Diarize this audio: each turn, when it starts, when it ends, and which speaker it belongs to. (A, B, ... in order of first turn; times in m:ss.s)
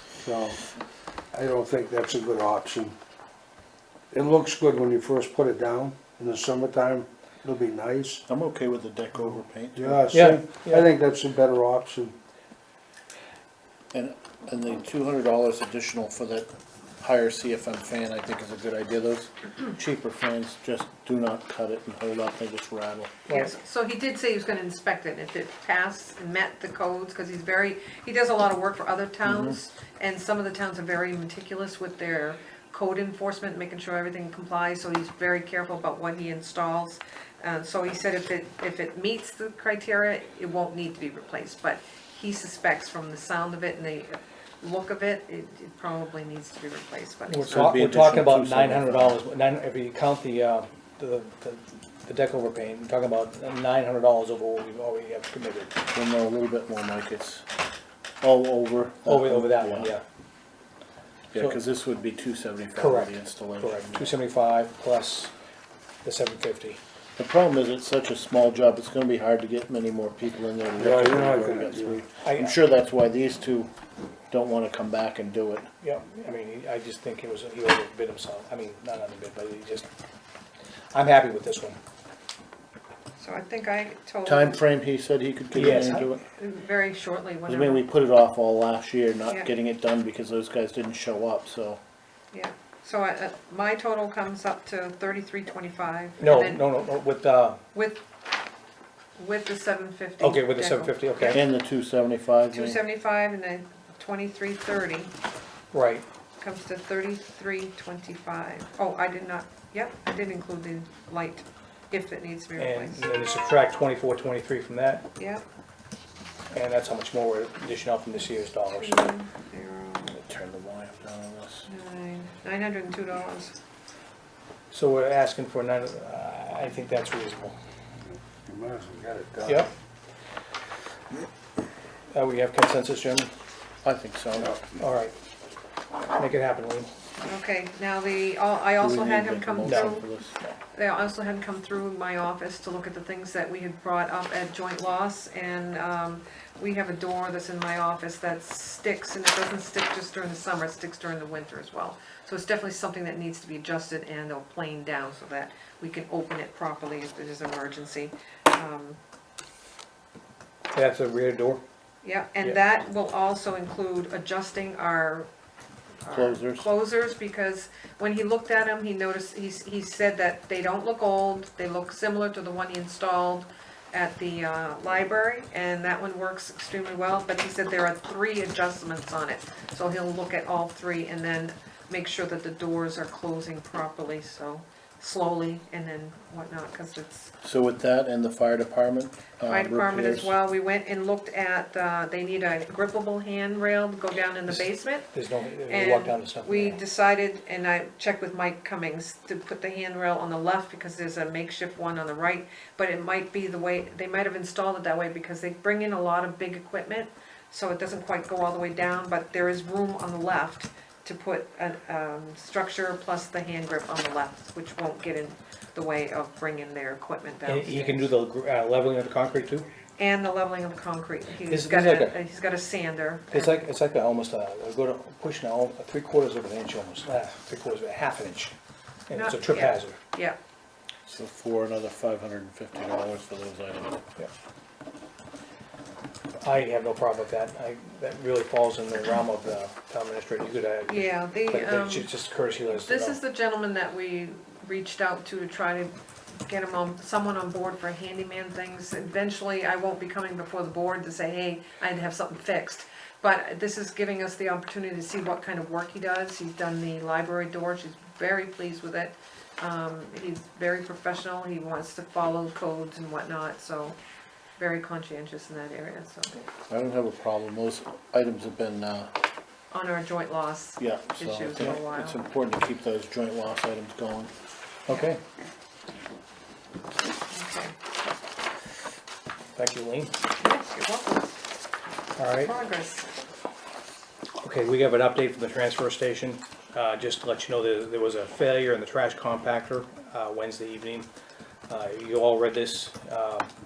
0:00.2-0:00.6 A
0:01.3-0:03.0 A
0:04.1-0:08.2 A
0:08.3-0:10.1 B
0:09.8-0:12.2 A
0:10.1-0:10.9 C
0:13.9-0:16.5 B
0:17.0-0:23.2 B
0:23.3-0:47.7 D
0:29.2-0:29.6 B
0:47.3-0:55.8 C
0:47.5-0:49.2 B
0:55.9-0:57.5 B
0:58.2-0:59.9 B
0:59.1-1:00.0 C
1:01.3-1:04.2 B
1:02.8-1:05.3 C
1:06.0-1:06.8 C
1:07.2-1:13.7 B
1:10.8-1:12.0 A
1:12.2-1:12.6 C
1:14.3-1:15.7 B
1:15.8-1:19.9 C
1:20.9-1:21.8 C
1:23.2-1:24.6 D
1:24.2-1:26.2 B
1:25.6-1:26.1 C
1:26.2-1:27.9 D
1:27.5-1:31.8 B
1:32.3-1:36.7 D
1:36.2-1:37.6 C
1:37.7-1:38.0 D
1:39.2-1:41.4 D
1:40.2-1:41.4 C
1:41.2-1:42.8 B
1:42.5-1:45.1 D
1:45.7-1:46.0 C
1:46.4-1:53.0 D
1:52.6-1:55.0 C
1:55.2-1:55.4 D
1:56.5-1:59.1 C
1:58.7-2:00.2 D
2:00.0-2:01.7 B
2:01.7-2:03.6 D
2:04.7-2:07.6 C
2:08.0-2:09.7 A
2:12.1-2:13.3 C
2:13.8-2:14.6 B
2:14.8-2:15.1 C
2:16.2-2:16.9 C
2:17.2-2:20.1 D
2:18.8-2:20.4 B
2:19.6-2:20.6 C
2:20.7-2:39.0 D
2:40.7-2:41.6 C
2:42.0-2:45.3 D
2:46.0-3:07.3 D
2:46.1-2:46.7 B
3:07.4-3:10.3 B
3:09.5-3:15.1 D
3:14.5-3:16.8 C
3:15.7-3:38.1 D
3:37.5-3:39.7 C
3:40.0-3:43.6 D
3:41.5-3:42.2 C
3:43.3-3:48.6 C
3:49.1-3:50.0 C
3:49.1-3:50.4 D
3:51.1-3:54.0 B
3:56.4-4:03.2 C
4:00.9-4:02.1 D
4:02.7-4:24.0 D
4:24.6-4:26.4 D
4:26.7-4:29.1 B
4:29.7-4:32.2 D
4:30.8-4:34.3 B
4:34.9-4:35.2 C
4:37.3-4:37.7 D
4:39.6-4:40.2 C
4:40.4-4:41.4 D
4:42.2-4:42.5 C
4:42.4-4:43.1 D
4:44.4-4:51.1 C
4:51.7-4:53.5 C